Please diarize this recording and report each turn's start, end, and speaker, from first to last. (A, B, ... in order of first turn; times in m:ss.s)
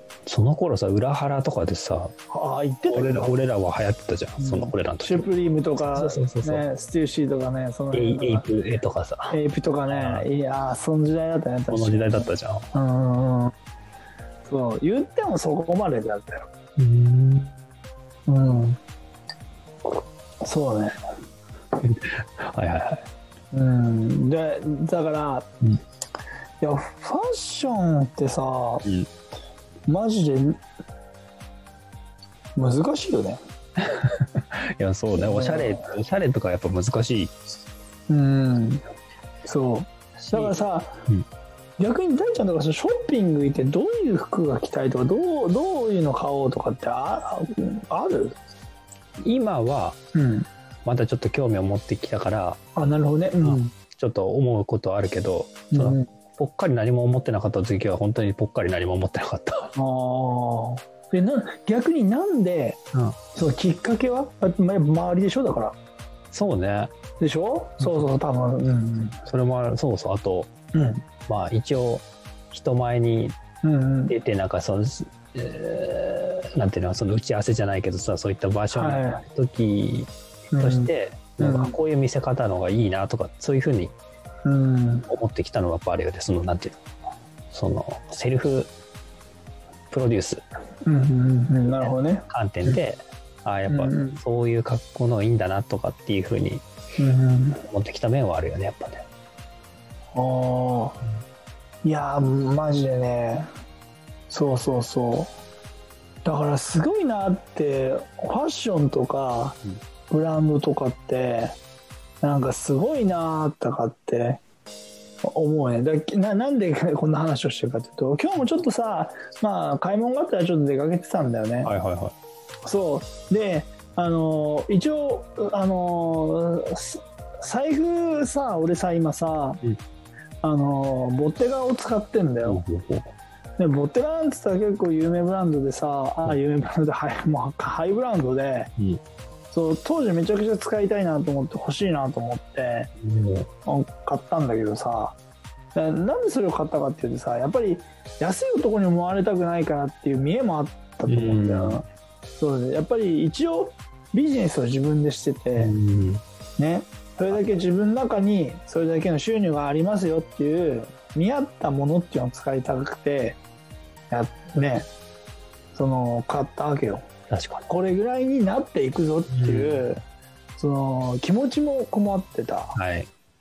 0:00.3-0:02.1 A
0:02.3-0:03.4 B
0:02.9-0:05.3 A
0:04.4-0:08.5 B
0:05.9-0:06.6 A
0:07.9-0:09.4 A
0:09.3-0:13.5 B
0:09.9-0:10.3 A
0:11.7-0:12.7 A
0:14.5-0:16.5 B
0:16.8-0:17.5 A
0:18.3-0:18.8 B
0:20.4-0:21.0 B
0:21.8-0:23.1 A
0:23.5-0:25.5 B
0:26.6-0:28.9 B
0:29.9-0:30.6 B
0:32.6-0:33.4 B
0:33.8-0:37.3 A
0:35.2-0:35.9 B
0:38.1-0:38.8 B
0:39.4-0:41.0 B
0:40.2-0:40.5 A
0:41.8-0:48.4 B
0:49.2-0:50.0 A
0:50.1-0:50.5 B
0:50.8-0:52.6 A
0:52.8-0:53.8 B
0:53.4-0:59.7 A
0:55.7-0:56.1 B
0:59.8-1:02.8 B
1:03.3-1:05.8 B
1:06.3-1:06.9 A
1:07.2-1:09.2 B
1:09.3-1:10.5 A
1:10.7-1:11.0 B
1:11.3-1:13.4 A
1:13.6-1:14.2 B
1:14.1-1:23.9 A
1:18.7-1:19.2 B
1:20.5-1:21.8 B
1:24.4-1:25.1 B
1:25.1-1:26.8 A
1:27.5-1:28.7 A
1:29.9-1:30.4 A
1:30.8-1:32.8 B
1:31.8-1:36.6 A
1:33.7-1:34.2 B
1:37.0-1:37.6 B
1:37.7-1:39.0 A
1:40.2-1:41.0 B
1:41.8-1:43.5 B
1:44.3-1:45.3 B
1:46.2-1:49.6 B
1:50.1-1:51.6 B
1:52.2-1:54.4 B
1:55.2-2:01.7 B
2:01.6-2:02.1 A
2:02.7-2:09.6 B
2:10.4-2:12.6 B
2:12.5-2:13.1 A
2:13.6-2:18.7 B
2:19.5-2:22.9 B
2:23.0-2:23.5 A
2:23.7-2:25.2 B
2:25.8-2:31.8 B
2:31.1-2:31.8 A
2:32.4-2:35.7 B
2:35.6-2:36.2 A
2:36.6-2:43.4 B
2:44.1-2:44.9 B
2:45.8-2:47.1 B
2:47.3-2:47.7 A
2:47.7-2:50.0 B
2:49.3-2:49.8 A
2:50.6-2:52.8 B
2:52.8-2:53.1 A